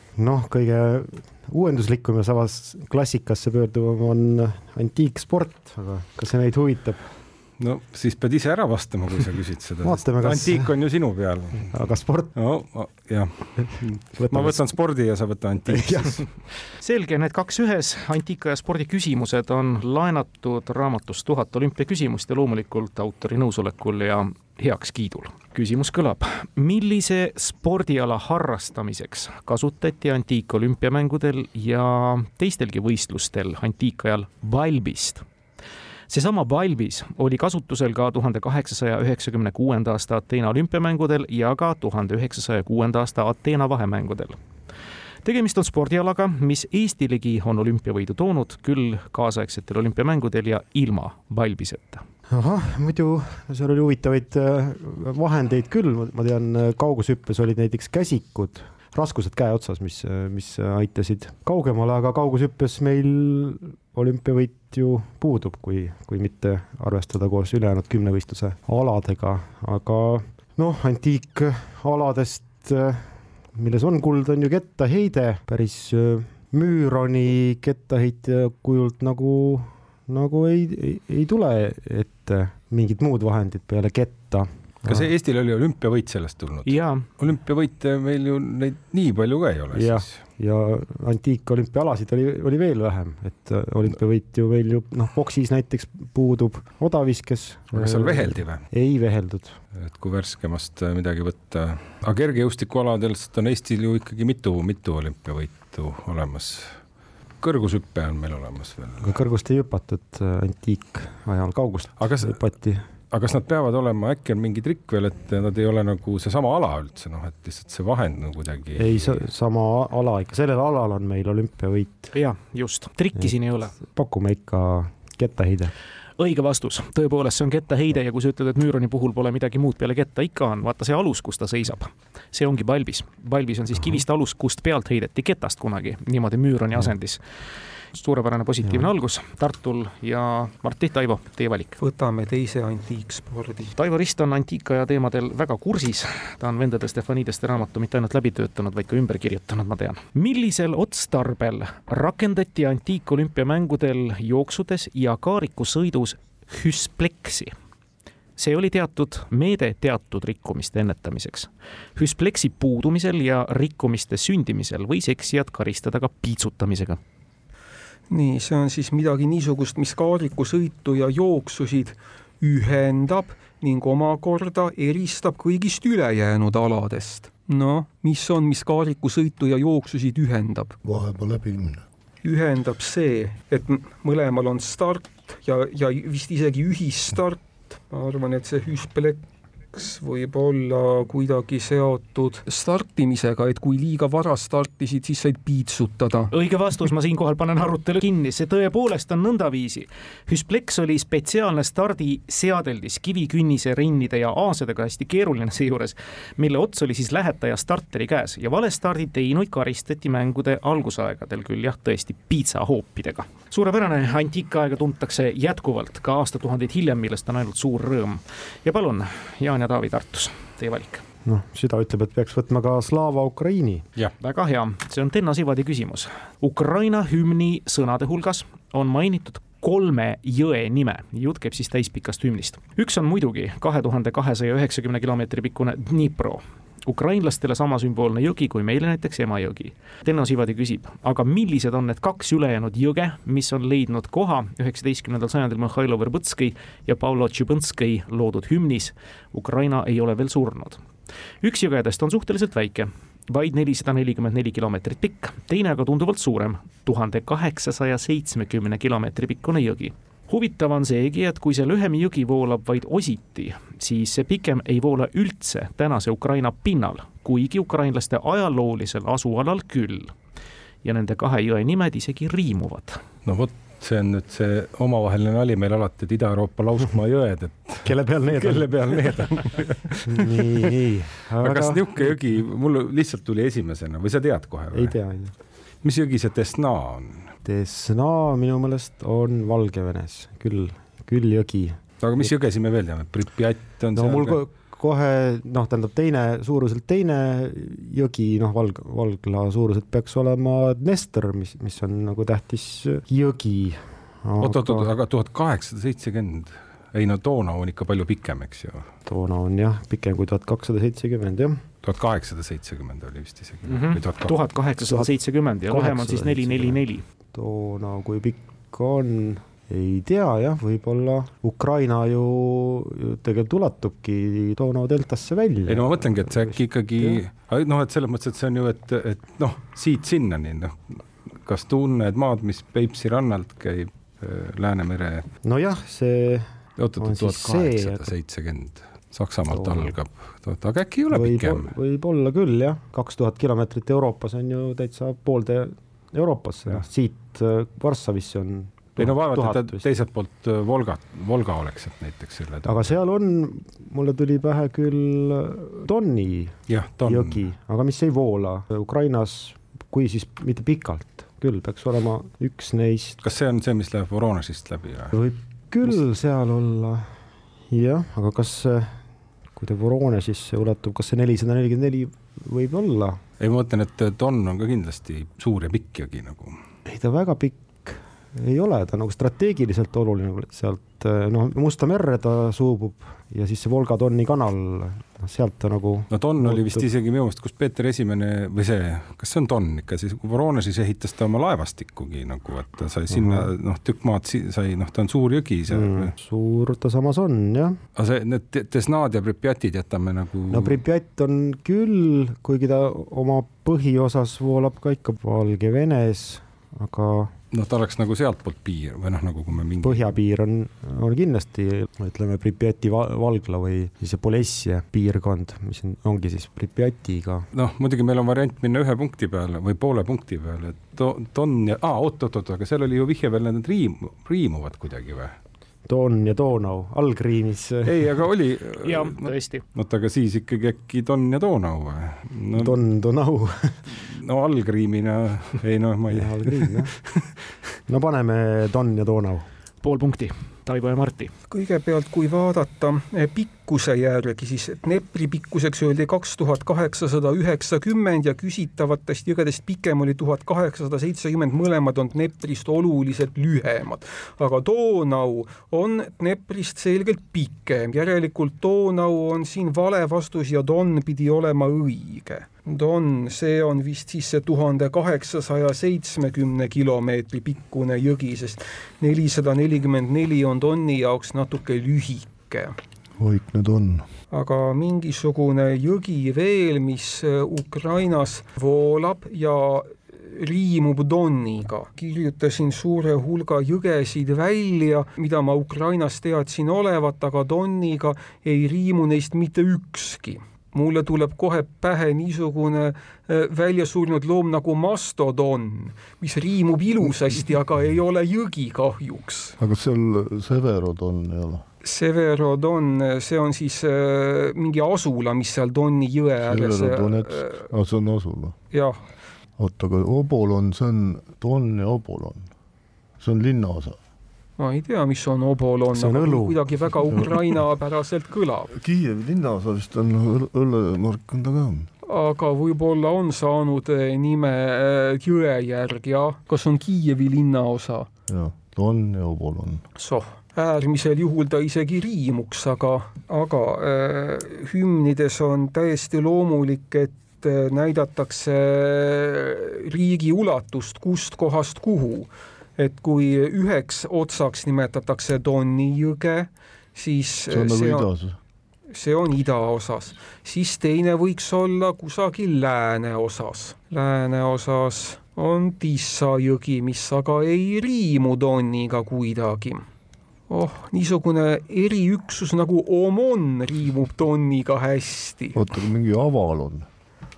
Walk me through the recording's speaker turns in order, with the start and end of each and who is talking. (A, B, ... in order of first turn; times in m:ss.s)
0:00.2-0:07.0 A
0:07.6-0:11.7 B
0:09.8-0:10.7 A
0:11.6-0:12.3 A
0:12.3-0:16.3 B
0:14.2-0:14.7 A
0:15.7-0:16.3 A
0:16.8-0:35.2 C
0:36.1-0:44.4 C
0:45.2-0:52.0 C
0:52.3-1:25.1 A
1:24.8-1:30.1 B
1:26.6-1:27.0 C
1:29.7-1:39.6 A
1:37.7-1:38.6 B
1:39.8-1:46.8 B
1:47.4-1:49.1 B
1:49.0-1:52.8 A
1:52.0-1:52.4 B
1:53.1-1:59.2 B
1:58.8-2:02.1 A
2:02.1-2:03.7 C
2:03.2-2:05.7 A
2:06.2-2:17.2 C
2:17.9-2:21.8 C
2:21.8-2:23.7 D
2:23.7-2:37.5 C
2:38.4-2:47.0 C
2:48.1-3:00.8 D
3:00.8-3:01.8 E
3:02.2-3:09.2 D
3:09.7-3:16.3 D
3:16.3-3:41.0 C
3:41.2-3:43.8 A
3:44.2-4:10.8 C
4:11.4-4:30.1 C
4:30.8-4:33.0 C
4:33.2-4:40.7 B
4:37.8-4:39.2 A
4:40.1-4:42.1 A
4:41.4-4:44.9 B
4:44.7-4:45.3 A
4:45.8-4:47.3 B
4:47.4-4:52.3 A
4:52.0-4:54.4 B
4:53.9-5:04.9 A
5:04.4-5:08.9 B
5:09.0-5:11.6 A
5:11.8-5:14.3 B
5:13.6-5:17.0 C
5:15.7-5:16.8 A
5:17.3-5:27.2 A
5:25.7-5:35.3 B
5:35.4-5:36.5 A
5:36.8-5:41.7 B
5:37.0-5:38.1 A
5:39.5-5:39.9 A
5:41.1-5:49.8 A
5:49.0-5:52.9 B
5:52.6-6:03.2 A
5:56.7-5:57.4 B
6:03.2-6:05.2 B
6:05.1-6:07.1 A
6:07.7-6:09.0 A
6:09.6-6:13.2 A
6:13.4-6:16.6 B
6:16.8-6:26.9 A
6:26.1-6:36.1 B
6:33.1-6:33.5 A
6:35.7-6:37.8 A
6:38.0-6:40.8 B
6:40.5-6:47.3 A
6:47.5-6:50.1 B
6:49.8-6:57.4 A
6:57.5-7:05.3 B
7:05.9-7:08.1 A
7:07.8-7:12.8 B
7:08.8-7:09.6 C
7:12.5-7:13.8 A
7:13.9-7:17.3 B
7:16.1-7:16.9 A
7:17.9-7:19.4 A
7:19.8-7:21.3 C
7:21.5-7:52.7 D
7:53.2-7:54.0 E
7:54.3-8:19.6 D
8:19.6-8:21.6 E
8:21.8-8:27.6 D
8:26.4-8:28.6 E
8:28.7-8:29.0 D
8:29.6-8:32.5 E
8:33.2-8:34.0 E
8:34.6-8:38.7 D
8:35.9-8:37.2 A
8:38.7-8:41.9 E
8:42.0-8:48.1 D
8:48.3-8:49.8 E
8:50.0-9:08.1 D
9:07.5-9:08.4 E
9:08.9-9:19.8 D
9:20.5-9:25.6 D
9:25.5-9:26.9 E